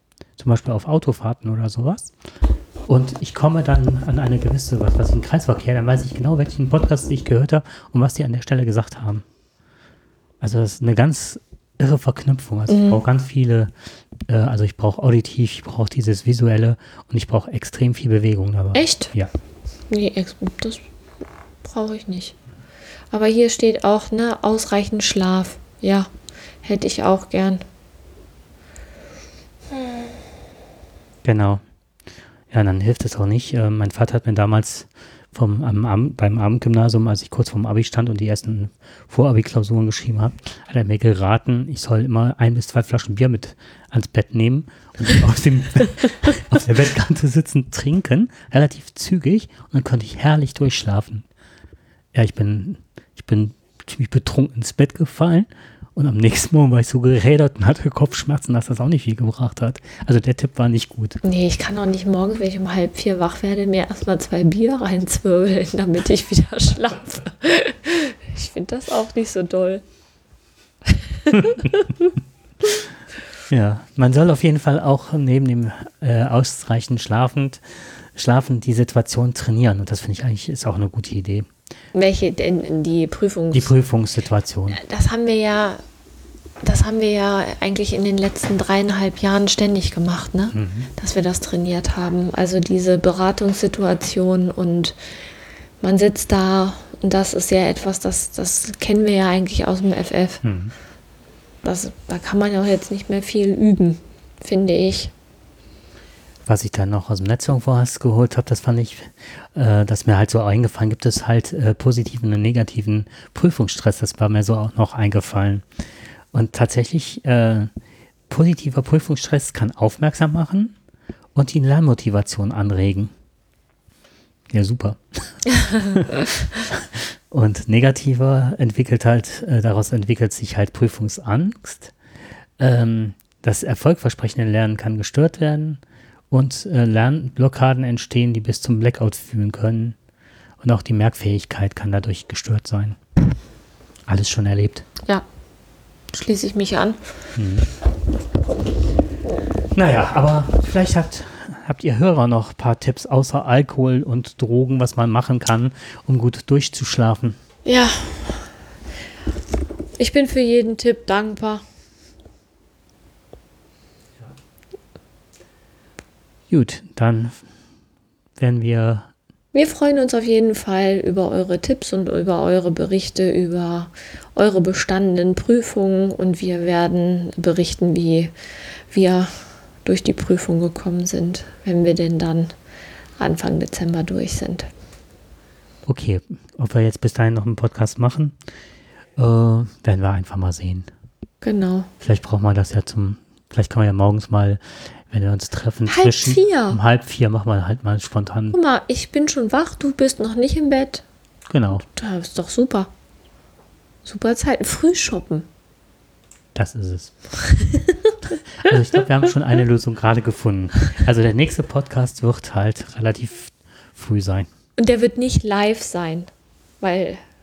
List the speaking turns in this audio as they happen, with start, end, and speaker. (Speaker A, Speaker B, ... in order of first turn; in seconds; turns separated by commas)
Speaker A: 0.4-2.1, Speaker A: 2.9-9.2, Speaker A: 10.4-13.7, Speaker B: 12.7-13.0, Speaker A: 14.3-19.3, Speaker B: 18.7-19.1, Speaker B: 19.9-20.8, Speaker B: 21.6-22.3, Speaker B: 23.1-26.1, Speaker B: 26.6-27.6, Speaker A: 31.2-31.6, Speaker A: 32.5-51.3, Speaker A: 52.1-61.2, Speaker B: 61.2-69.8, Speaker B: 70.9-72.1, Speaker A: 73.5-81.5, Speaker B: 81.9-83.7, Speaker A: 83.5-84.8, Speaker B: 84.7-85.8, Speaker B: 86.6-95.0, Speaker A: 90.5-90.9, Speaker B: 95.8-100.4, Speaker A: 100.4-100.7, Speaker B: 101.6-105.1, Speaker A: 106.5-115.7, Speaker A: 116.3-117.7, Speaker A: 118.3-120.7, Speaker A: 121.3-123.1, Speaker A: 124.5-126.1, Speaker A: 126.7-131.9, Speaker A: 132.6-139.9, Speaker A: 140.6-143.0, Speaker A: 144.1-144.8, Speaker B: 146.1-147.0, Speaker A: 147.3-147.7, Speaker A: 149.7-157.4, Speaker B: 157.6-158.5, Speaker B: 160.0-161.6, Speaker A: 166.5-167.4, Speaker A: 168.4-169.1, Speaker B: 169.5-178.3, Speaker B: 178.9-182.5, Speaker B: 183.2-184.7, Speaker A: 185.8-188.3, Speaker A: 189.2-190.9, Speaker B: 191.4-191.9, Speaker A: 192.0-198.6, Speaker B: 195.9-196.8, Speaker B: 198.5-201.0, Speaker A: 201.5-201.8, Speaker B: 201.7-202.9, Speaker B: 204.0-205.5, Speaker A: 206.5-207.1, Speaker B: 207.4-208.1, Speaker A: 208.5-214.5, Speaker B: 214.8-216.3, Speaker B: 216.8-217.2